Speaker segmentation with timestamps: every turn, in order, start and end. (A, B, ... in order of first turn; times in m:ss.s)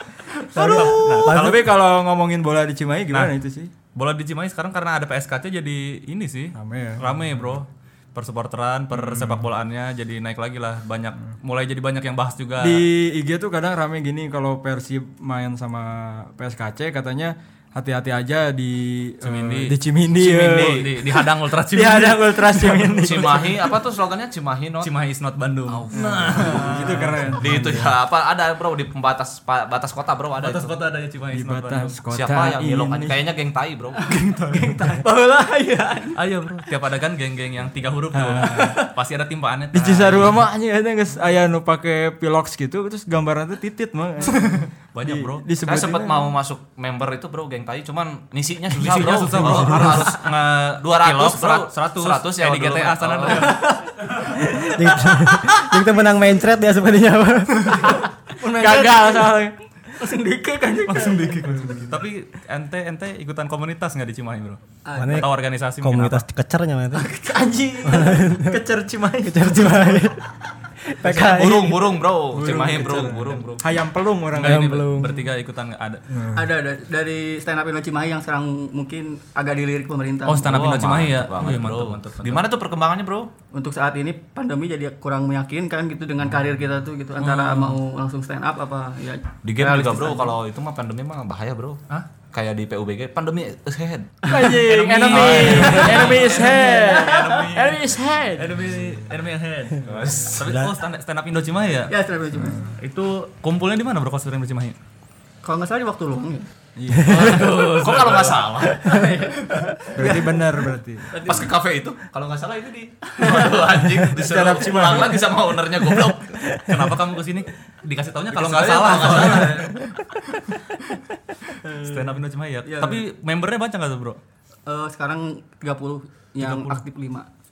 0:00.6-0:01.5 A
0:00.6-0:01.6 B
0:00.6-0:03.7 C
0:00.6-0:01.3 D
0:03.9-0:12.9 A
0:06.5-0:07.1 C
0:08.9-0:09.4 C
0:12.6-0:23.6 C
0:19.2-0:23.0 A
0:20.3-0:20.9 D
0:23.0-0:24.9 D
0:24.8-0:27.4 A
0:25.7-0:30.7 D
0:26.0-0:27.9 C
0:30.4-0:32.0 A
0:31.3-0:33.2 C
0:32.1-0:34.0 D
0:34.0-0:36.2 E
0:34.5-0:34.9 C
0:36.2-0:40.4 A
0:38.1-0:38.8 C
0:38.4-0:38.9 E
0:39.7-0:46.3 C
0:44.4-0:45.5 A
0:45.6-0:53.6 D
0:48.7-0:53.7 A
0:49.4-0:50.0 B
0:53.3-0:54.1 E
0:54.3-0:57.8 B
0:57.7-1:01.9 E
0:58.4-0:59.6 C
1:00.9-1:04.6 A
1:01.6-1:01.9 C
1:04.8-1:05.3 E
1:05.0-1:07.1 B
1:05.2-1:06.2 A
1:07.2-1:10.0 C
1:07.8-1:08.6 B
1:09.2-1:10.2 B
1:10.8-1:12.0 B
1:11.0-1:13.7 D
1:12.3-1:15.1 C
1:14.3-1:16.0 A
1:14.5-1:15.1 B
1:16.1-1:16.5 C
1:16.3-1:20.5 E
1:20.3-1:22.5 A
1:20.4-1:23.3 D
1:23.5-1:30.3 E
1:27.2-1:27.8 A
1:29.4-1:31.8 D
1:32.3-1:34.4 D
1:34.2-1:38.7 C
1:34.4-1:41.9 A
1:35.1-1:36.7 D
1:35.6-1:37.5 E
1:39.8-1:40.6 D
1:40.4-1:40.7 B
1:41.9-1:42.7 E
1:42.4-1:42.8 C
1:42.8-1:44.8 A
1:45.4-1:46.5 E
1:46.8-1:47.5 C
1:47.0-1:47.4 B
1:47.1-1:48.7 A
1:47.2-1:49.0 D
1:48.8-1:50.2 E
1:50.0-1:51.2 C
1:51.1-1:56.5 D
1:51.1-1:51.5 E
1:53.2-1:53.6 E
1:54.2-1:55.3 C
1:56.6-1:59.9 A
1:58.3-1:59.9 D
2:01.6-2:02.1 E
2:01.7-2:04.2 A
2:02.6-2:03.0 E
2:04.7-2:07.3 E
2:06.4-2:06.8 A